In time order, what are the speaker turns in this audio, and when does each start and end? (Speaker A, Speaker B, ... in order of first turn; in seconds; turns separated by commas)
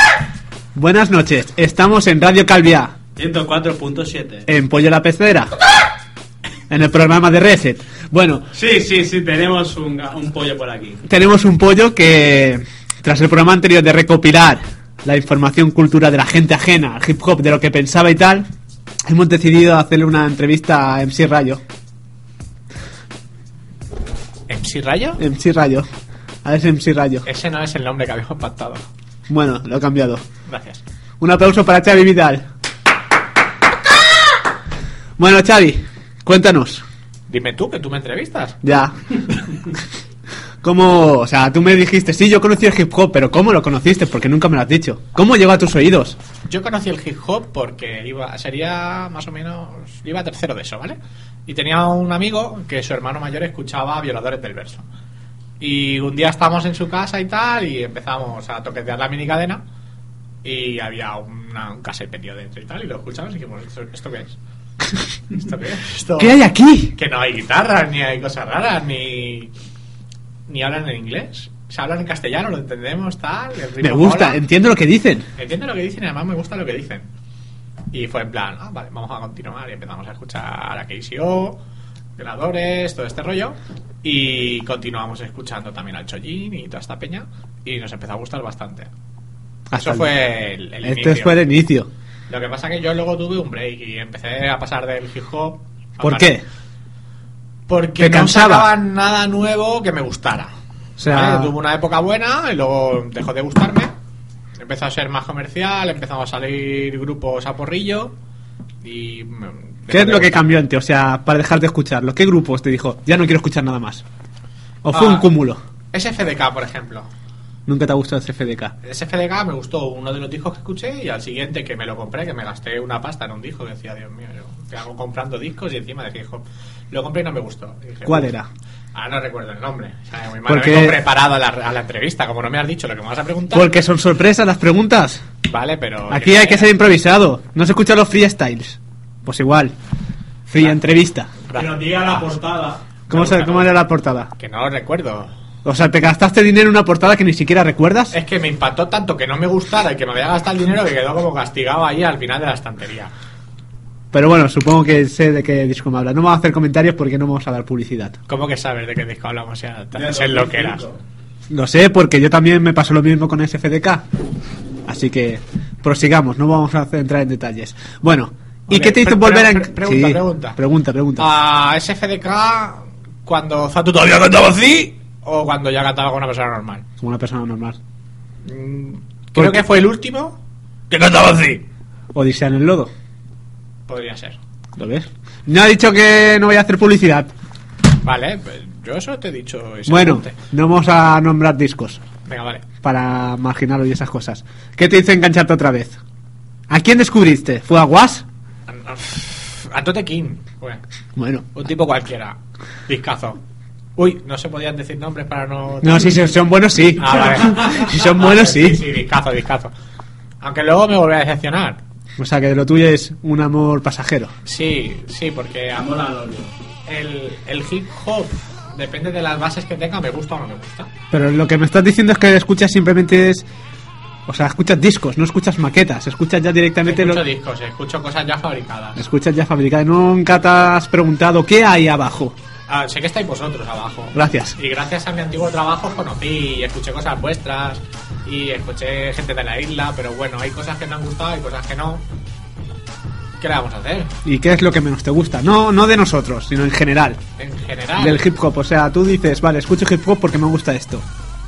Speaker A: 0.8-2.9, Speaker B: 3.2-4.5, Speaker A: 4.5-5.5, Speaker A: 6.7-8.5, Speaker B: 8.5-11.0, Speaker A: 11.1-18.5, Speaker A: 19.1-21.6, Speaker C: 24.5-25.2, Speaker A: 25.2-25.9, Speaker A: 26.4-27.3, Speaker C: 27.2-28.8, Speaker A: 29.3-30.2, Speaker C: 30.5-30.8, Speaker A: 31.2-32.4, Speaker A: 35.2-36.9, Speaker C: 37.3-38.6, Speaker A: 38.6-39.0, Speaker A: 40.6-46.2, Speaker C: 46.5-51.0, Speaker C: 51.5-54.9, Speaker C: 55.6-59.6, Speaker C: 60.4-64.4, Speaker C: 65.3-66.4, Speaker A: 66.2-66.9, Speaker C: 66.9-69.5, Speaker C: 70.5-74.4, Speaker A: 73.8-75.3, Speaker C: 75.4-77.1, Speaker C: 77.9-81.6, Speaker C: 82.2-88.9, Speaker A: 89.7-90.1, Speaker C: 89.8-91.4, Speaker A: 90.8-91.9, Speaker C: 92.3-96.3, Speaker A: 96.0-96.4, Speaker C: 97.7-100.5, Speaker A: 98.0-98.7, Speaker A: 101.0-101.5, Speaker C: 101.0-103.9, Speaker C: 104.6-108.1, Speaker C: 108.8-110.5, Speaker A: 109.9-114.0, Speaker A: 114.8-115.6, Speaker C: 114.9-115.3, Speaker C: 115.9-117.1, Speaker A: 117.7-118.7, Speaker C: 118.8-128.3, Speaker A: 128.1-128.5, Speaker C: 128.9-133.7, Speaker A: 130.5-131.0, Speaker A: 133.5-135.2, Speaker C: 135.4-136.7, Speaker A: 136.1-139.7, Speaker A: 140.5-141.4, Speaker C: 141.5-142.2, Speaker B: 141.5-142.8, Speaker C: 143.1-143.8, Speaker A: 143.1-144.3, Speaker C: 144.4-145.3, Speaker A: 145.7-148.2, Speaker C: 148.1-153.1, Speaker A: 154.1-158.2, Speaker C: 158.3-160.8, Speaker B: 159.9-160.9, Speaker A: 161.5-164.0, Speaker A: 164.9-171.3, Speaker C: 168.7-170.6, Speaker C: 171.2-176.8, Speaker A: 177.0-177.8, Speaker C: 178.4-180.4, Speaker A: 179.4-179.6, Speaker C: 180.9-181.6, Speaker A: 182.1-182.9, Speaker C: 183.9-184.4, Speaker A: 184.8-187.3, Speaker C: 188.0-190.4, Speaker A: 189.9-192.0, Speaker C: 192.3-192.7, Speaker A: 192.8-196.0, Speaker A: 196.7-198.2, Speaker C: 198.7-200.8, Speaker A: 201.2-201.5, Speaker C: 201.5-203.4, Speaker C: 204.0-206.1, Speaker A: 205.8-208.8, Speaker C: 207.0-209.7, Speaker C: 210.4-211.8, Speaker A: 212.2-214.3, Speaker C: 214.4-216.0, Speaker B: 215.7-216.5, Speaker C: 216.9-220.9, Speaker A: 221.1-223.5, Speaker A: 224.3-227.2, Speaker C: 226.8-229.0, Speaker A: 229.0-232.3, Speaker C: 232.7-242.0, Speaker A: 234.1-234.6, Speaker C: 243.4-244.1, Speaker A: 244.2-247.2, Speaker C: 247.4-248.2, Speaker A: 248.0-251.1